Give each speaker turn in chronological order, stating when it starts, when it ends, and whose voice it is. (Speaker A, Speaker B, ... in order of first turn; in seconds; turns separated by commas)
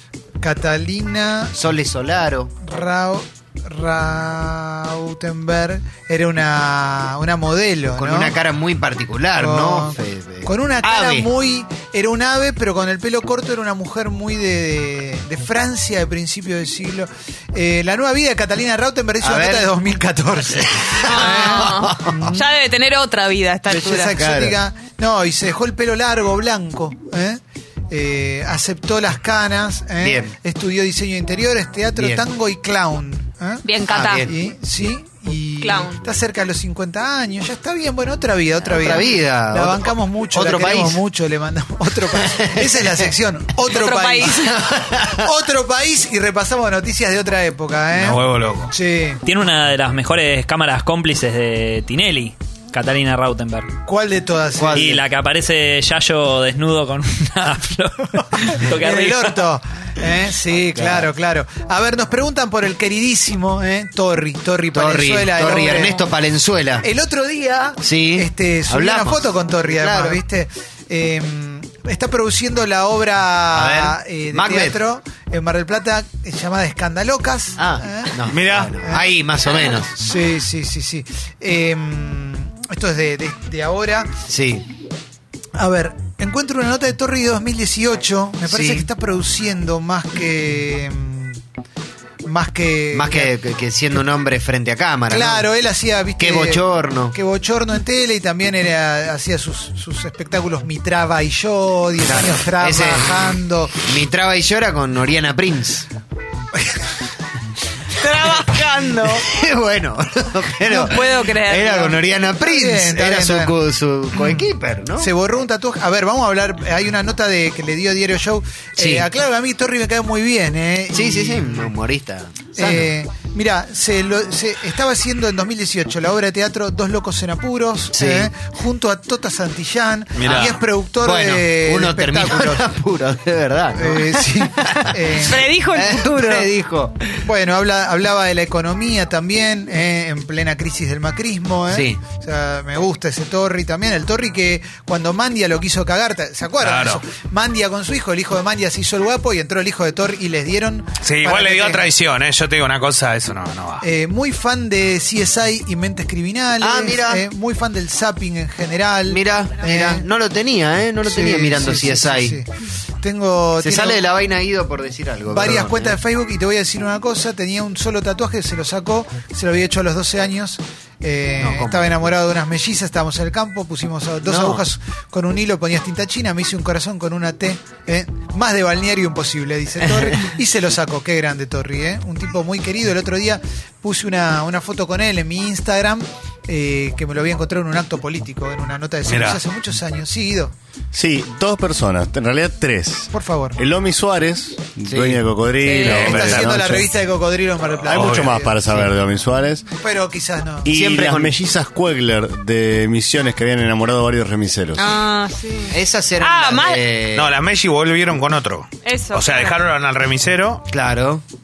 Speaker A: 0.4-1.6, Speaker B: 1.6-2.5, Speaker A: 2.6-8.4, Speaker B: 8.0-11.3, Speaker A: 9.4-22.4, Speaker B: 19.2-19.7, Speaker B: 20.6-22.4, Speaker C: 21.0-24.1, Speaker A: 23.7-33.6, Speaker B: 24.1-24.6, Speaker B: 30.0-30.3, Speaker B: 32.0-32.2, Speaker C: 33.6-34.3, Speaker B: 33.9-34.3, Speaker A: 34.2-44.5, Speaker C: 35.6-36.0, Speaker B: 38.6-41.0, Speaker B: 42.2-43.1, Speaker C: 43.7-44.6, Speaker B: 44.4-45.3, Speaker A: 45.1-49.2, Speaker D: 48.0-48.7, Speaker E: 49.3-53.7, Speaker A: 53.9-55.0, Speaker B: 54.6-55.0, Speaker E: 54.8-59.4, Speaker A: 58.4-66.1, Speaker B: 60.8-61.1, Speaker B: 64.7-66.9, Speaker A: 66.8-79.2, Speaker B: 67.8-70.2, Speaker B: 73.5-74.8, Speaker B: 77.6-79.9, Speaker D: 78.3-78.7, Speaker A: 79.9-84.2, Speaker B: 84.3-84.7, Speaker A: 85.5-91.4, Speaker B: 88.5-88.9, Speaker A: 92.2-93.3, Speaker B: 92.9-95.5, Speaker A: 95.1-103.8, Speaker B: 96.2-97.2, Speaker B: 102.0-103.3, Speaker B: 103.8-105.9, Speaker C: 108.0-109.2, Speaker B: 109.3-115.1, Speaker C: 110.7-112.0, Speaker A: 112.4-113.6, Speaker A: 114.1-114.5, Speaker A: 115.0-121.7, Speaker B: 118.8-119.1, Speaker B: 120.9-122.9, Speaker A: 122.5-132.7, Speaker B: 127.9-128.3, Speaker D: 130.2-130.6, Speaker B: 131.0-134.9, Speaker A: 133.8-135.5, Speaker C: 135.1-136.5, Speaker B: 135.5-137.1, Speaker A: 137.2-151.9, Speaker B: 141.7-142.0, Speaker D: 146.6-147.0, Speaker D: 151.0-153.9, Speaker A: 153.8-160.1, Speaker B: 156.6-157.2, Speaker B: 159.1-162.4, Speaker A: 161.0-162.5, Speaker A: 163.0-164.0, Speaker B: 163.6-166.0, Speaker A: 165.3-190.5, Speaker B: 171.4-172.1, Speaker B: 174.2-174.6, Speaker D: 189.1-189.4, Speaker F: 190.9-196.9, Speaker A: 193.1-193.6, Speaker B: 194.9-195.3, Speaker C: 195.6-196.1, Speaker A: 195.8-198.8, Speaker B: 195.9-196.4, Speaker D: 197.8-198.4, Speaker F: 197.9-199.7, Speaker A: 199.8-200.7, Speaker F: 200.7-204.9, Speaker B: 200.7-201.4, Speaker C: 204.8-206.8, Speaker B: 205.7-207.4, Speaker D: 207.2-210.6, Speaker C: 208.8-209.6, Speaker B: 210.7-211.2